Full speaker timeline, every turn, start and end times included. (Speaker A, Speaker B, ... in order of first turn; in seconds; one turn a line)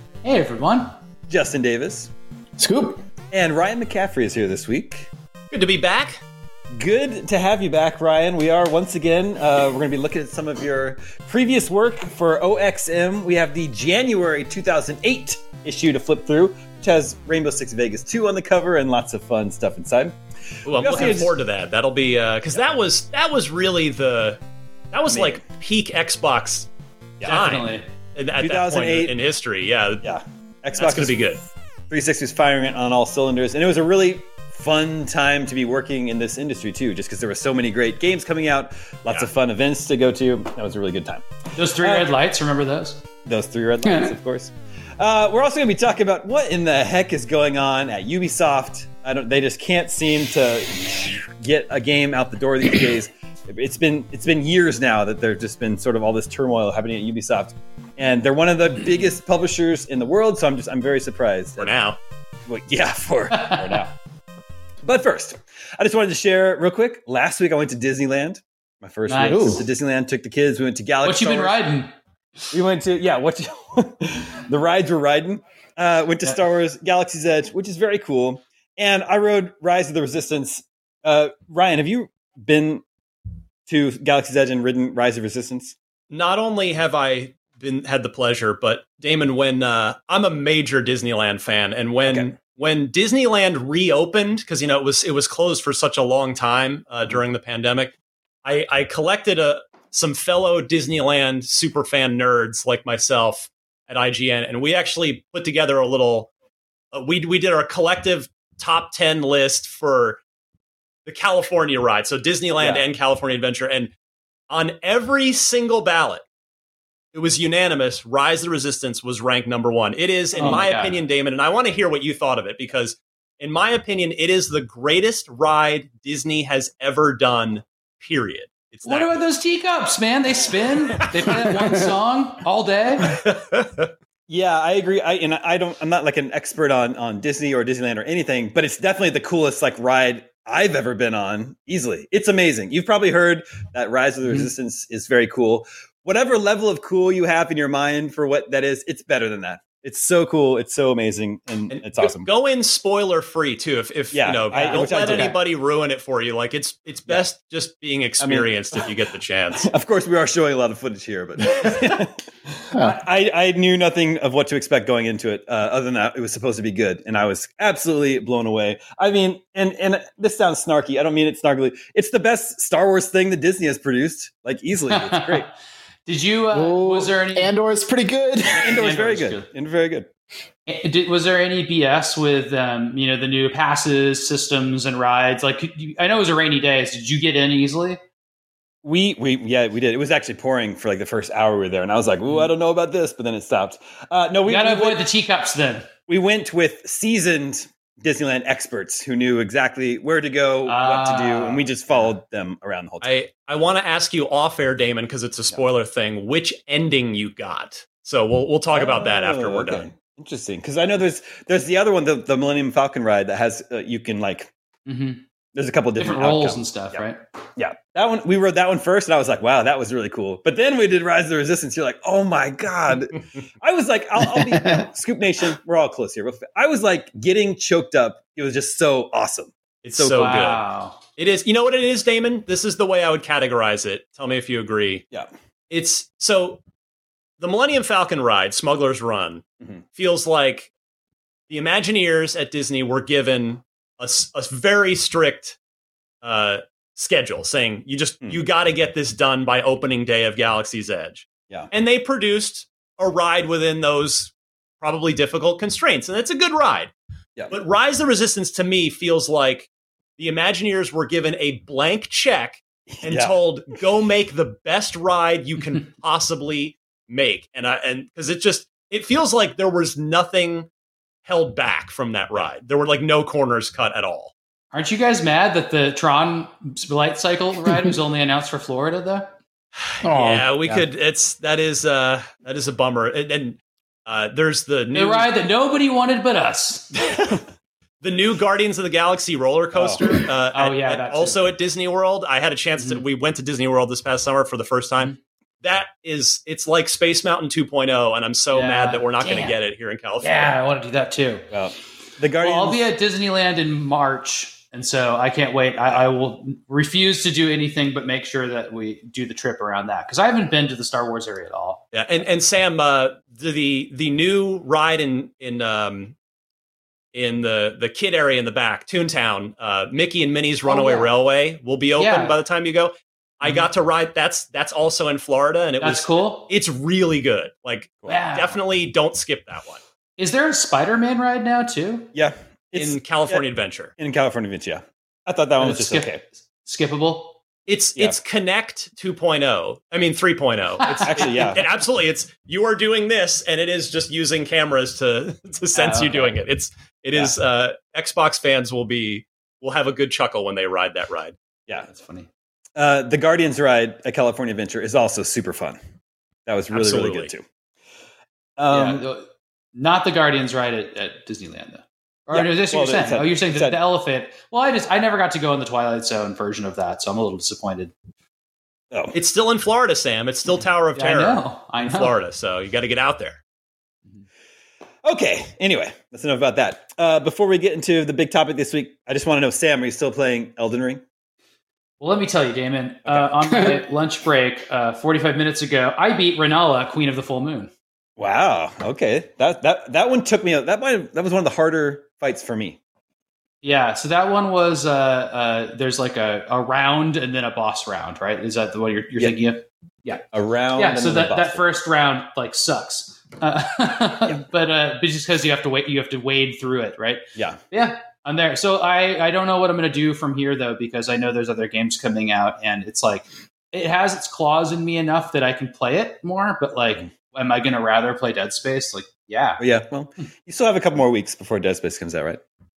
Speaker A: 0.2-0.9
Speaker B: 1.3-2.1
Speaker C: 2.6-3.0
Speaker B: 3.3-5.1
Speaker D: 5.5-6.2
Speaker B: 6.7-21.3
Speaker D: 20.6-24.4
Speaker D: 24.9-26.7
Speaker B: 25.1-25.4
Speaker A: 27.2-27.9
Speaker D: 27.2-30.0
Speaker B: 28.4-29.1
Speaker B: 30.0-31.4
Speaker D: 30.7-31.4
Speaker B: 31.9-41.3
Speaker A: 41.5-43.0
Speaker B: 41.8-42.1
Speaker B: 43.2-61.7
Speaker A: 43.8-44.1
Speaker D: 61.6-62.0
Speaker B: 62.5-63.9
Speaker A: 63.3-63.8
Speaker B: 64.8-71.6
Speaker A: 69.1-69.6
Speaker C: 69.3-69.6
Speaker A: 71.0-71.9
Speaker B: 72.5-82.8
Speaker B: 83.7-85.7
Speaker D: 86.1-97.9
Speaker D: 98.4-106.3
Speaker D: 106.9-110.2
Speaker D: 111.0-113.9
Speaker B: 112.6-112.8
Speaker D: 114.5-116.2
Speaker D: 117.1-129.2
Speaker B: 120.3-120.6
Speaker A: 120.4-121.0
Speaker A: 128.8-133.2
Speaker D: 133.0-133.9
Speaker B: 134.3-152.3
Speaker D: 151.7-159.7
Speaker B: 154.1-155.4
Speaker B: 158.2-158.8
Speaker B: 159.6-175.4
Speaker A: 174.9-175.5
Speaker A: 176.1-177.5
Speaker C: 176.5-178.7
Speaker A: 178.6-179.5
Speaker B: 178.6-180.1
Speaker A: 180.7-188.0
Speaker B: 188.8-195.0
Speaker A: 194.4-195.9
Speaker B: 196.1-203.1
Speaker A: 200.7-202.1
Speaker D: 203.0-209.9
Speaker B: 208.7-214.5
Speaker A: 214.8-215.2
Speaker B: 215.5-217.0
Speaker A: 215.9-217.2
Speaker B: 217.6-230.4
Speaker C: 224.4-224.8
Speaker D: 229.8-230.6
Speaker A: 230.1-231.0
Speaker D: 231.2-235.0
Speaker D: 235.7-236.6
Speaker D: 237.4-239.4
Speaker D: 239.9-240.7
Speaker D: 241.5-245.6
Speaker D: 246.2-256.9
Speaker D: 257.5-270.7
Speaker B: 262.9-263.4
Speaker D: 271.2-274.3
Speaker A: 274.7-279.3
Speaker D: 279.8-285.3
Speaker C: 280.0-280.8
Speaker A: 284.9-287.2
Speaker D: 288.0-300.5
Speaker B: 289.7-290.2
Speaker A: 290.5-291.4
Speaker A: 298.5-299.6
Speaker A: 300.2-301.5
Speaker B: 301.5-302.8
Speaker A: 302.4-311.8
Speaker D: 311.9-316.1
Speaker D: 317.1-329.8
Speaker A: 320.6-321.1
Speaker A: 322.0-322.3
Speaker A: 325.8-326.5
Speaker A: 328.1-328.6
Speaker A: 330.2-332.1
Speaker B: 332.1-333.4
Speaker D: 332.8-333.9
Speaker B: 334.0-336.2
Speaker A: 335.6-337.4
Speaker D: 337.7-351.3
Speaker A: 340.8-341.4
Speaker B: 341.0-341.7
Speaker A: 345.7-346.3
Speaker A: 351.8-352.3
Speaker B: 352.8-355.8
Speaker B: 356.4-357.4
Speaker D: 356.7-357.3
Speaker B: 358.6-359.0
Speaker A: 358.7-367.9
Speaker B: 362.3-363.8
Speaker D: 369.1-373.4
Speaker A: 370.9-372.1
Speaker B: 375.0-381.0
Speaker A: 382.0-387.7
Speaker B: 383.1-383.7
Speaker B: 388.2-392.8
Speaker A: 393.6-419.6
Speaker B: 400.3-401.7
Speaker B: 419.6-422.4